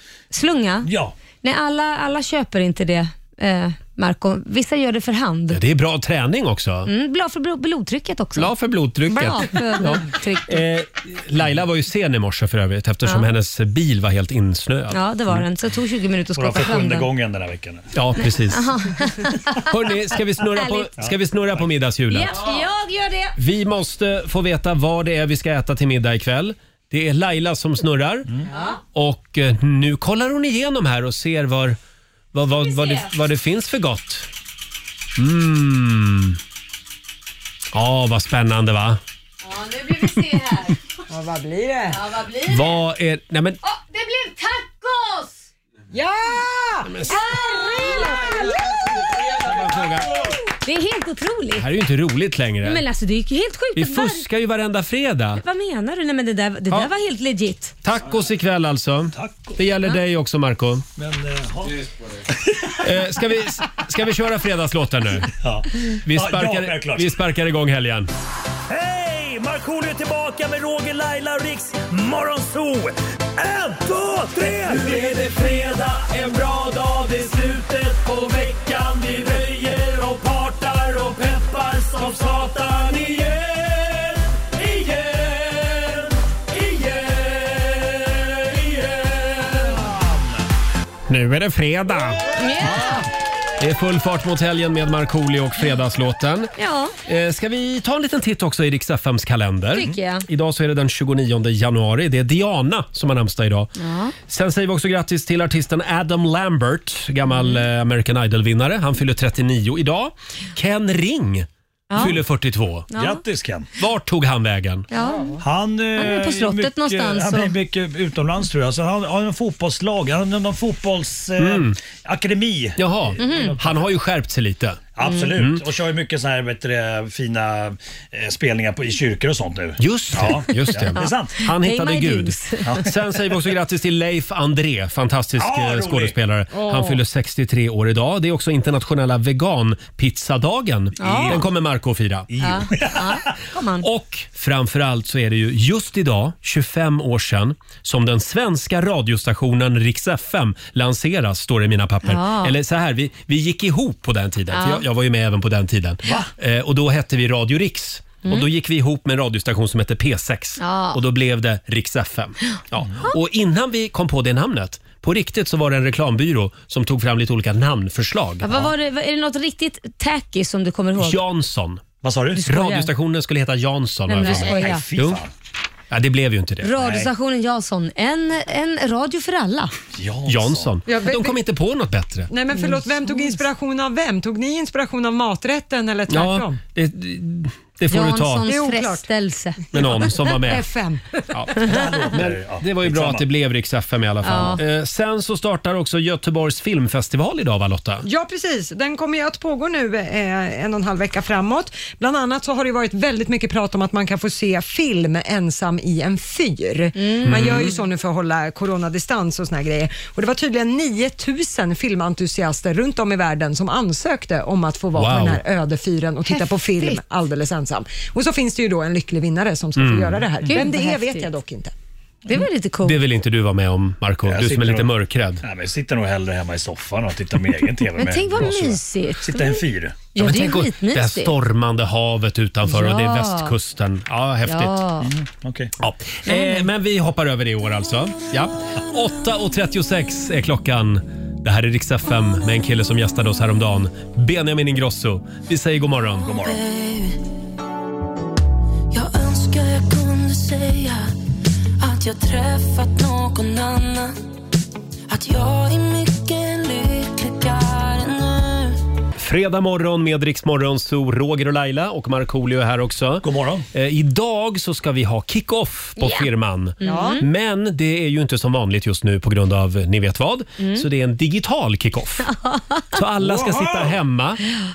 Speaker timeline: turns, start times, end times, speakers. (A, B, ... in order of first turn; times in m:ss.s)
0:00.3-0:00.9 A
0:00.8-0:01.1 B
0:01.4-0:05.6 A
0:05.5-0:06.9 C
0:06.9-0:08.5 A
0:08.4-0:15.4 C
0:09.1-0:10.6 A
0:14.9-0:17.1 A
0:16.4-0:17.9 B
0:17.9-0:18.7 C
0:18.5-0:19.7 A
0:19.7-0:22.5 C
0:20.5-0:20.9 A
0:21.0-0:21.6 B
0:22.1-0:23.4 A
0:23.4-0:28.4 C
0:28.5-0:28.8 A
0:28.9-0:31.8 C
0:32.3-0:34.3 C
0:32.5-0:33.1 A
0:35.2-0:36.4 C
0:37.7-0:39.0 C
0:39.4-0:40.8 A
0:41.1-0:42.0 D
0:41.9-0:42.8 A
0:42.5-0:43.6 C
0:43.6-0:45.4 A
0:45.9-0:47.0 D
0:46.8-0:48.2 C
0:47.0-0:48.6 A
0:49.4-0:50.2 C
0:50.5-0:51.7 A
0:51.6-0:52.8 C
0:52.6-0:54.2 A
0:53.8-0:55.4 C
0:55.4-0:57.8 A
0:57.8-1:00.8 C
0:59.1-0:59.6 B
1:01.0-1:02.8 B
1:02.8-1:05.3 C
1:05.4-1:07.1 B
1:06.0-1:08.1 C
1:08.7-1:30.3 B
1:14.7-1:17.4 C
1:31.1-1:32.8 C
1:32.3-1:33.0 A
1:33.6-1:36.5 C
1:36.6-1:37.0 A
1:37.0-1:52.9 C
1:39.7-1:40.3 A
1:43.8-1:44.2 A
1:47.3-1:47.6 A
1:51.9-1:52.2 A
1:52.9-1:53.2 A
1:52.9-1:53.7 B
1:53.8-1:54.9 C
1:54.9-1:55.4 A
1:55.0-1:55.4 D
1:55.4-2:03.9 B
1:56.0-1:57.6 A
2:01.4-2:01.8 C
2:02.8-2:05.7 C
2:03.2-2:03.6 A
2:05.0-2:11.4 B
2:09.8-2:22.7 C
2:11.0-2:12.7 A
2:12.6-2:12.9 B
2:15.4-2:16.2 B
2:16.5-2:16.9 D
2:21.0-2:21.4 A
2:21.0-2:21.5 B
2:22.3-2:23.3 B
2:22.4-2:23.9 A
2:23.8-2:48.6 C
2:32.0-2:32.6 A
2:34.5-2:34.8 A
2:36.0-2:36.3 B
2:40.6-2:41.0 A
2:48.4-2:51.2 A
2:51.0-2:51.8 C
2:52.0-2:52.5 B
2:52.4-2:52.9 A
2:52.4-2:55.2 C
2:54.1-2:54.8 A
2:54.2-2:55.3 B
2:55.9-2:56.8 C
2:56.6-2:59.7 A
2:56.8-2:57.1 B
3:00.0-3:00.8 B
3:00.3-3:02.3 C
3:00.9-3:01.4 D
3:02.3-3:06.6 D
3:02.6-3:03.4 A
3:06.1-3:08.5 C
3:07.9-3:10.3 A
3:08.5-3:09.1 D
3:09.7-3:10.6 C
3:09.8-3:11.3 D
3:11.3-3:18.1 C
3:11.6-3:13.2 B
3:14.2-3:14.6 A
3:18.0-3:41.7 D
3:27.0-3:27.8 A
3:27.2-3:27.7 C
3:35.0-3:35.4 C
3:36.3-3:37.0 A
3:39.8-3:40.2 C
3:40.5-3:41.3 A
3:42.3-3:43.0 A
3:42.8-3:45.4 C
3:44.3-3:44.9 B
3:45.4-3:50.0 B
3:48.0-3:49.6 A
3:50.1-3:51.3 A
3:50.2-3:54.8 C
3:52.7-3:53.5 A
3:54.5-3:55.1 A
3:55.0-3:55.7 B
3:55.8-4:06.4 C
3:56.3-3:56.7 A
4:06.2-4:06.6 B
4:06.4-4:07.2 E
4:08.9-4:11.1 E
4:11.8-4:14.2 E
4:15.1-4:18.8 E
4:19.2-4:32.3 C
4:23.2-4:23.7 B
4:26.0-4:27.2 A
4:26.8-4:27.2 D
4:30.6-4:30.9 A
4:32.2-4:33.0 A
4:32.9-4:34.4 C
4:33.2-4:34.0 B